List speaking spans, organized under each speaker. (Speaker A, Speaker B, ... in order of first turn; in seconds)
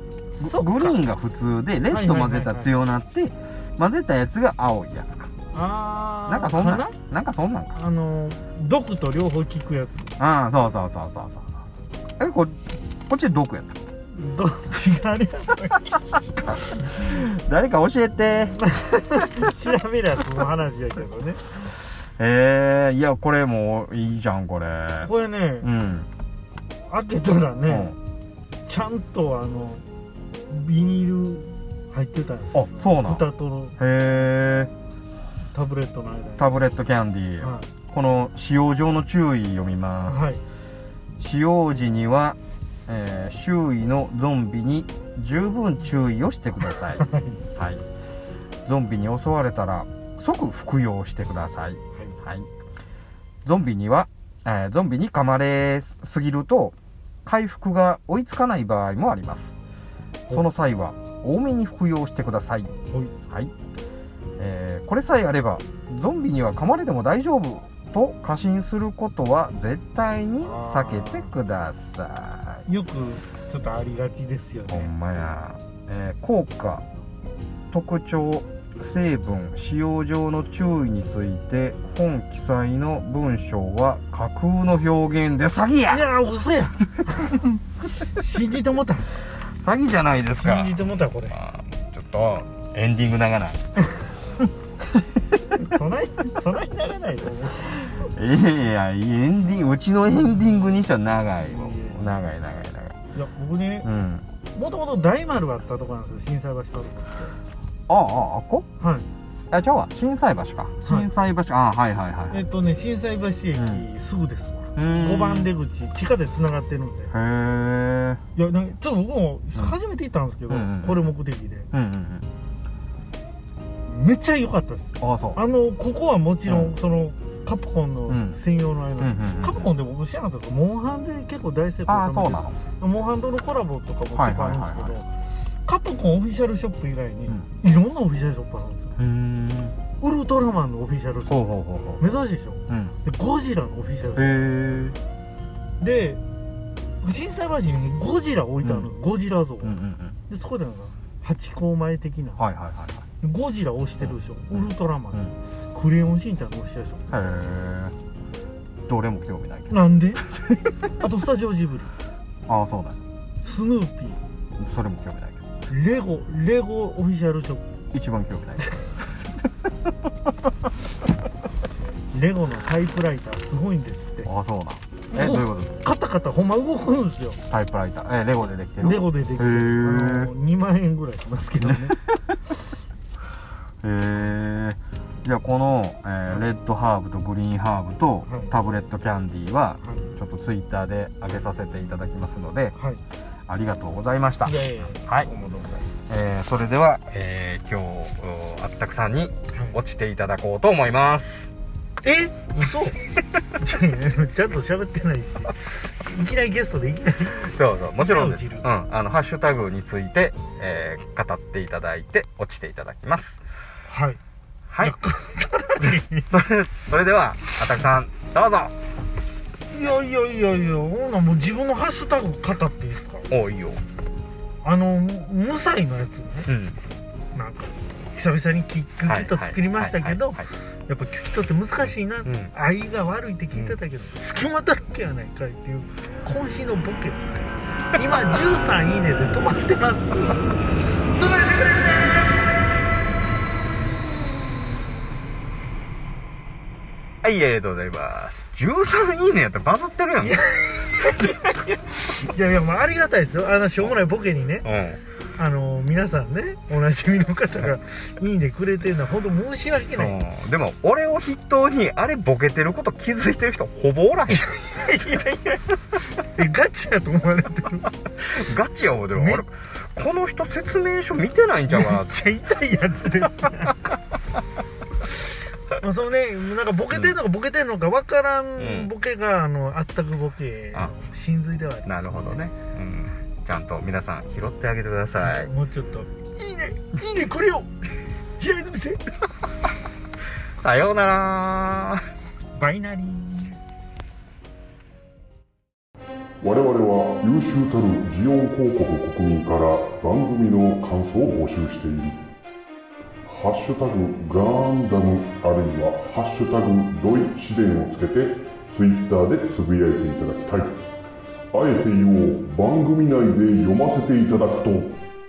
Speaker A: 0.3-0.9, 1.9-2.7, 5.5-7.0, 7.8-10.1, 14.1-16.0, 18.6-21.4, 25.0-25.7, 26.9-27.9, 28.7-29.8, 30.5-33.8, 35.5-36.5, 37.4-37.7, 40.1-40.4, 47.0-47.4, 70.4-71.3, 72.7-74.9, 85.9-87.6, 88.2-89.1, 90.4-91.4, 95.6-98.0, 101.4-102.2, 103.2-103.9, 104.5-107.4, 108.8-109.1, 112.3-117.1, 118.4-121.7, 123.9-135.1, 135.7-138.9, 140.0-141.4, 142.0-144.5, 145.8-146.2, 147.0-149.8, 150.3-152.4, 153.2-157.3, 159.7-160.2, 161.0-161.9, 163.4-164.2, 165.7-167.7, 172.1-174.3, 175.1-177.4, 178.8-182.0, 188.3-188.5, 189.8-190.1, 192.8-193.0, 194.4-195.8, 202.0-203.0, 203.6-205.6, 206.1-208.7, 213.9-214.2, 214.8-216.3, 219.7-223.3, 224.6-226.5, 227.3-237.3, 238.0-240.5, 250.2-254.7, 255.4-260.1, 264.3-265.6, 266.2-267.9, 269.2-269.4, 271.7-273.9, 275.8-282.4, 285.2-287.7, 288.4-289.0, 292.6-293.6
Speaker B: 0.4-5.3, 6.3-7.7, 10.2-11.5, 12.2-13.9, 16.5-18.6, 22.2-25.1, 25.6-26.1, 27.7-28.0, 32.5-33.2, 33.8-34.7, 36.4-40.3, 41.2-47.0, 47.6-47.8, 48.7-52.5, 53.5-59.5, 60.3-62.7, 64.4-72.6, 74.7-76.8, 77.7-86.1, 89.6-93.6, 98.1-103.0, 103.8-104.2, 107.9-108.7, 109.5-112.4, 113.6-113.8, 114.8-115.5, 117.1-118.2, 120.5-121.0, 121.7-122.2, 125.0-125.4, 126.5-126.7, 128.1-128.4, 129.0-129.7, 131.9-132.6, 134.1-135.0, 139.0-139.8, 141.3-142.1, 142.7-142.9, 144.2-145.0, 148.6-148.9, 149.6-150.2, 152.4-153.1, 154.0-155.3, 157.1-157.9, 158.9-160.6, 162.5-163.0, 164.6-165.4, 167.9-168.8, 174.3-175.8, 177.5-180.3, 181.6-182.0, 183.8-192.8, 193.5-195.3, 196.1-201.5, 207.5-213.4, 214.7-215.0, 215.8-218.7, 223.3-223.8, 226.5-226.8, 229.1-230.5, 232.2-232.5, 247.2-250.4, 254.6-255.0, 259.9-264.4, 268.4-272.2, 278.6-278.9, 281.9-285.5, 290.6-292.1
Speaker C: 296.4-302.2, 303.2-310.8, 311.5-315.0